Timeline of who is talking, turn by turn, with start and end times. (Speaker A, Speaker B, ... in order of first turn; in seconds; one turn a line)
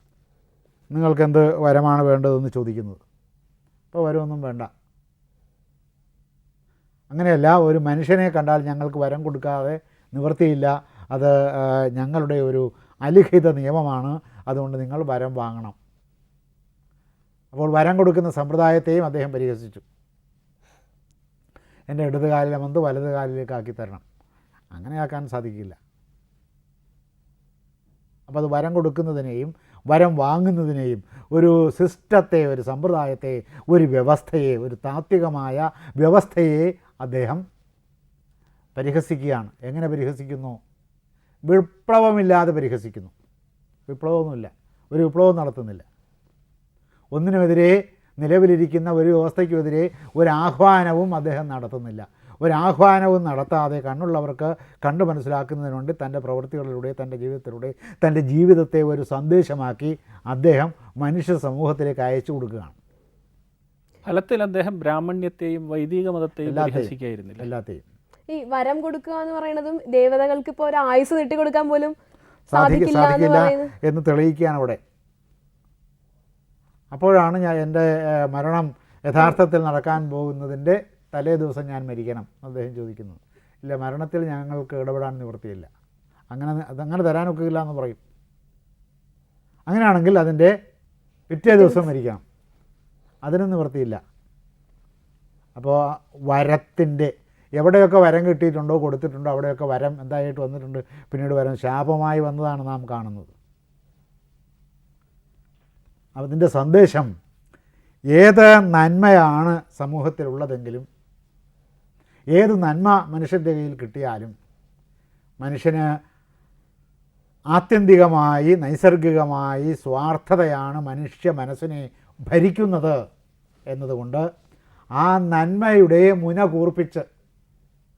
Speaker A: 0.9-3.0
Speaker A: 3.9-4.7
Speaker A: 7.1-15.8
Speaker A: 17.5-19.8
Speaker A: 21.9-24.0
Speaker A: 24.7-25.8
Speaker A: 28.3-37.4
Speaker A: 38.8-40.6
Speaker A: 41.5-43.1
Speaker A: 43.9-45.8
Speaker A: 47.1-62.8
Speaker B: 64.0-67.5
Speaker A: 66.5-67.8
Speaker C: 68.3-71.9
Speaker A: 72.5-74.8
Speaker C: 72.5-73.7
Speaker A: 76.9-85.7
Speaker A: 86.3-88.0
Speaker A: 89.7-90.5
Speaker A: 91.3-92.2
Speaker A: 93.2-94.0
Speaker A: 95.6-103.3
Speaker A: 106.2-107.1
Speaker A: 108.1-110.8
Speaker A: 112.3-114.3
Speaker A: 115.4-115.8
Speaker A: 117.5-123.0
Speaker A: 123.7-124.2
Speaker A: 125.0-127.0